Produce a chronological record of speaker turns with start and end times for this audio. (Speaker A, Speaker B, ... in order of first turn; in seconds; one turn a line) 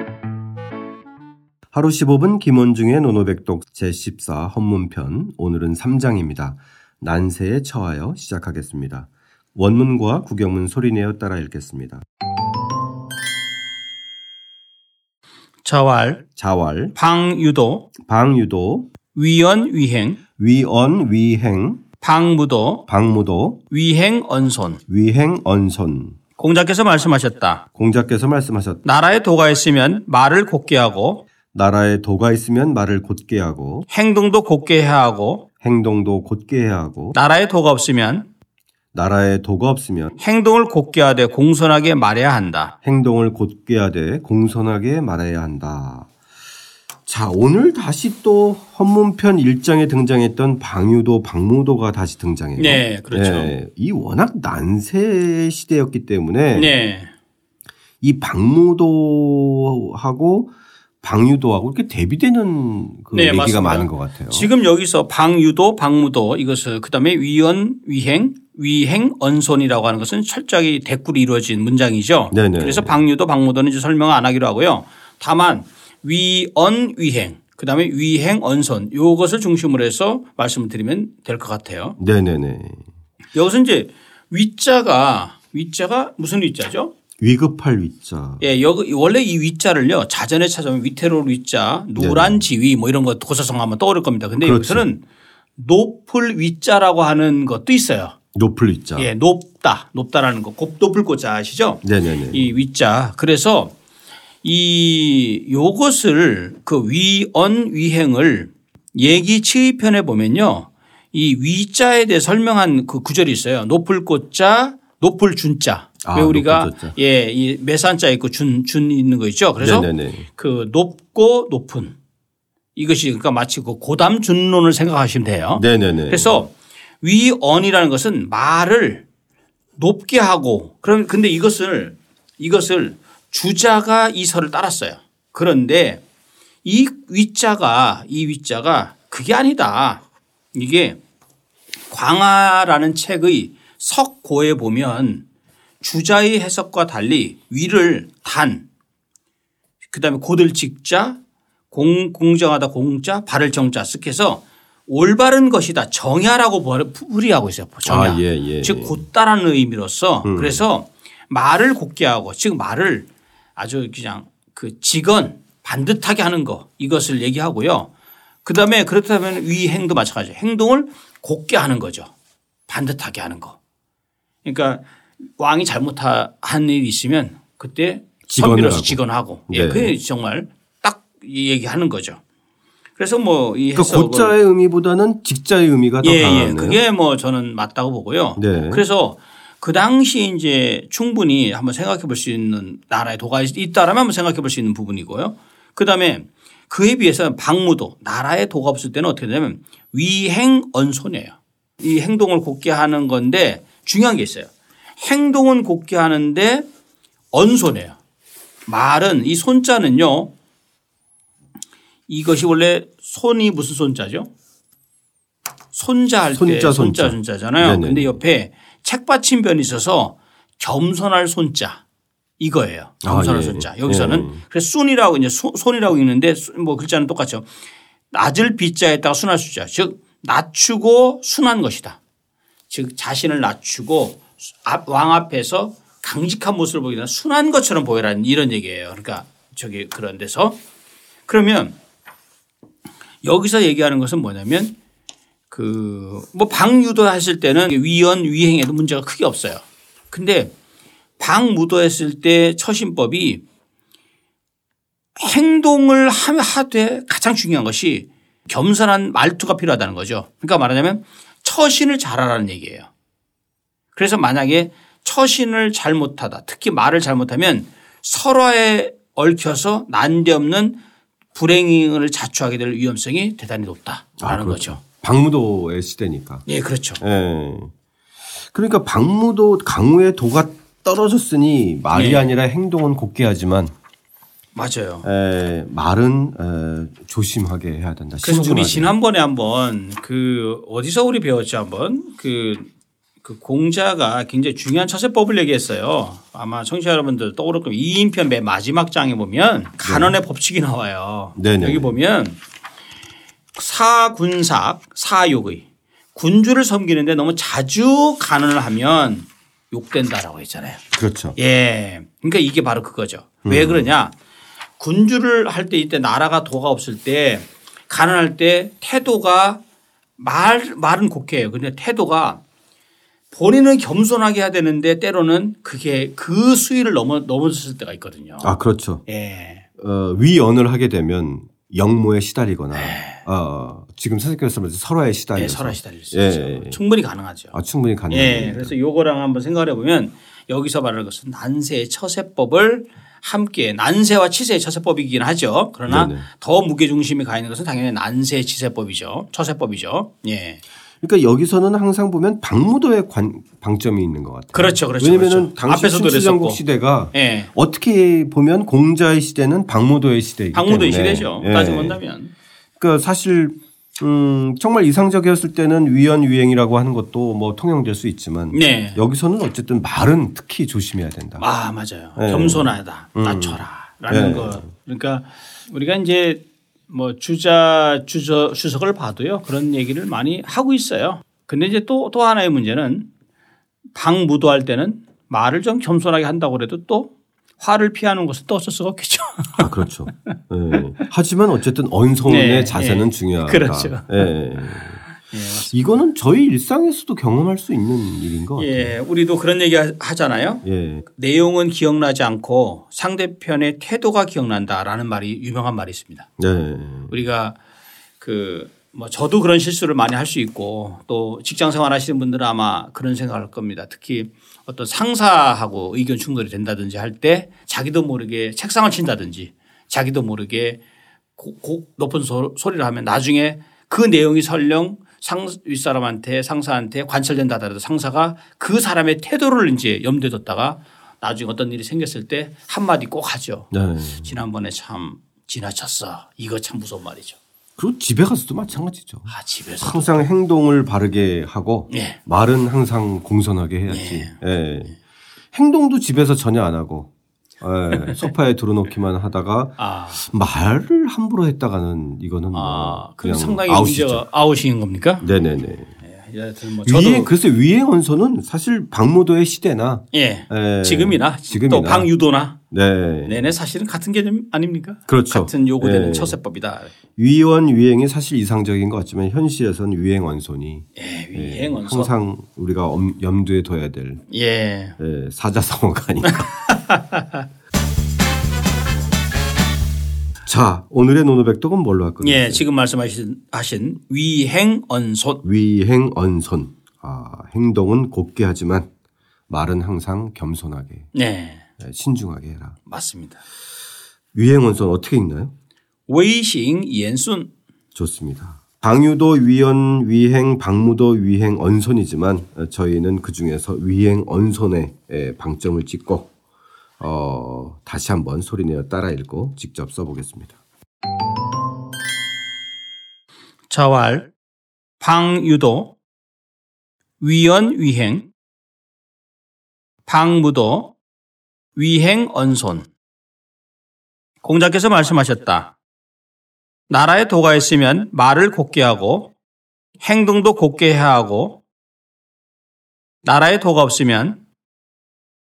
Speaker A: 1.7-12.0
Speaker B: 15.6-16.2
Speaker A: 16.4-17.0
Speaker B: 17.0-17.9
Speaker A: 18.0-18.9
Speaker B: 19.1-20.2
Speaker A: 20.4-21.8
Speaker B: 22.0-22.9
Speaker A: 22.9-23.6
Speaker B: 23.7-24.8
Speaker A: 24.9-26.2
Speaker B: 26.4-27.6
Speaker A: 27.8-28.8
Speaker B: 28.8-31.3
Speaker A: 31.5-33.9
Speaker B: 33.9-35.5
Speaker A: 35.6-37.2
Speaker B: 37.1-38.3
Speaker A: 38.9-40.2
Speaker B: 40.2-42.8
Speaker A: 42.8-46.1
Speaker A: 47.1-56.7
Speaker B: 52.6-53.5
Speaker B: 56.5-57.1
Speaker A: 58.0-64.5
Speaker B: 63.1-82.0
Speaker A: 72.3-73.0
Speaker A: 82.0-82.8
Speaker B: 83.3-86.9
Speaker A: 87.2-88.5
Speaker B: 88.4-95.0
Speaker A: 92.0-92.5
Speaker A: 94.4-94.9
Speaker B: 95.6-98.2
Speaker A: 98.3-99.1
Speaker B: 99.0-103.7
Speaker A: 101.8-102.5
Speaker B: 104.4-122.0
Speaker A: 116.0-117.0
Speaker A: 119.6-120.3
Speaker B: 122.8-129.1
Speaker A: 125.5-126.4
Speaker B: 129.8-136.0
Speaker B: 136.6-140.0
Speaker B: 140.5-141.0
Speaker B: 141.9-145.2
Speaker B: 145.8-148.7
Speaker B: 149.9-151.2
Speaker B: 151.7-167.9
Speaker A: 157.8-159.0
Speaker A: 160.2-160.6
Speaker B: 168.4-172.1
Speaker B: 172.7-173.6
Speaker B: 174.4-174.8
Speaker B: 175.4-182.2
Speaker A: 178.3-180.0
Speaker B: 183.0-184.3
Speaker A: 183.8-186.8
Speaker B: 186.0-206.7
Speaker A: 188.4-188.9
Speaker B: 207.3-208.0
Speaker B: 208.7-210.3
Speaker B: 212.1-214.3
Speaker B: 215.7-221.8
Speaker A: 216.3-218.2
Speaker B: 222.4-227.5
Speaker A: 223.0-224.4
Speaker B: 228.1-232.0
Speaker B: 232.7-240.6
Speaker B: 241.3-241.8
Speaker B: 243.2-244.7
Speaker B: 245.5-250.5
Speaker B: 251.2-253.4
Speaker B: 255.2-262.9
Speaker B: 263.9-270.8
Speaker B: 271.4-274.8
Speaker A: 274.2-276.4
Speaker B: 276.5-277.0
Speaker A: 277.0-277.7
Speaker A: 278.5-283.7
Speaker B: 281.9-282.3
Speaker B: 284.6-285.1
Speaker A: 285.0-288.9
Speaker B: 288.2-292.7
Speaker B: 293.2-302.4
Speaker A: 299.8-300.2
Speaker A: 301.4-302.0
Speaker B: 303.6-310.8
Speaker A: 310.9-311.4
Speaker B: 311.4-314.2
Speaker A: 313.4-313.9
Speaker B: 314.8-319.6
Speaker B: 320.2-322.4
Speaker B: 323.3-328.5
Speaker A: 328.4-329.0
Speaker B: 329.1-329.6
Speaker A: 329.8-336.8
Speaker B: 332.7-333.2
Speaker B: 335.4-337.6
Speaker A: 337.5-338.8
Speaker B: 338.1-350.6
Speaker A: 345.9-346.3
Speaker A: 351.0-362.0
Speaker B: 354.5-356.6
Speaker B: 357.1-357.5
Speaker B: 360.5-362.3
Speaker A: 362.8-371.5
Speaker B: 368.5-369.0
Speaker B: 371.4-383.1
Speaker A: 372.2-374.7
Speaker B: 383.9-389.9
Speaker A: 389.6-399.0
Speaker B: 392.3-394.3
Speaker B: 395.2-395.9
Speaker B: 398.6-400.6
Speaker A: 400.6-401.1
Speaker B: 401.2-406.3
Speaker A: 406.4-407.1
Speaker B: 407.1-407.6
Speaker B: 408.2-420.8
Speaker B: 421.4-437.4
Speaker A: 433.7-434.4
Speaker A: 437.8-445.0
Speaker B: 439.3-440.2
Speaker B: 441.9-442.2
Speaker B: 443.9-444.4
Speaker A: 445.5-454.2
Speaker B: 447.9-448.2
Speaker B: 449.8-450.2
Speaker B: 452.5-455.3
Speaker A: 455.2-455.9
Speaker B: 456.0-457.4
Speaker A: 456.9-462.1
Speaker B: 460.1-462.6
Speaker A: 462.7-463.5
Speaker B: 463.2-466.9
Speaker A: 465.1-466.4
Speaker A: 467.2-474.2
Speaker B: 471.0-472.1
Speaker B: 474.3-475.0
Speaker A: 475.0-476.5
Speaker B: 476.4-477.4
Speaker A: 480.4-482.6
Speaker B: 482.2-485.4
Speaker A: 485.4-488.9
Speaker A: 489.5-491.1
Speaker B: 491.1-491.6
Speaker A: 491.8-492.8
Speaker B: 492.9-493.4
Speaker A: 494.3-495.5
Speaker B: 496.1-497.5
Speaker A: 497.9-506.3
Speaker A: 507.0-510.6
Speaker B: 513.7-514.3
Speaker B: 515.0-516.0
Speaker B: 517.2-518.3
Speaker B: 520.1-521.0
Speaker B: 521.8-522.9
Speaker B: 524.4-525.7
Speaker B: 526.9-529.3
Speaker B: 530.0-531.6
Speaker B: 533.2-534.4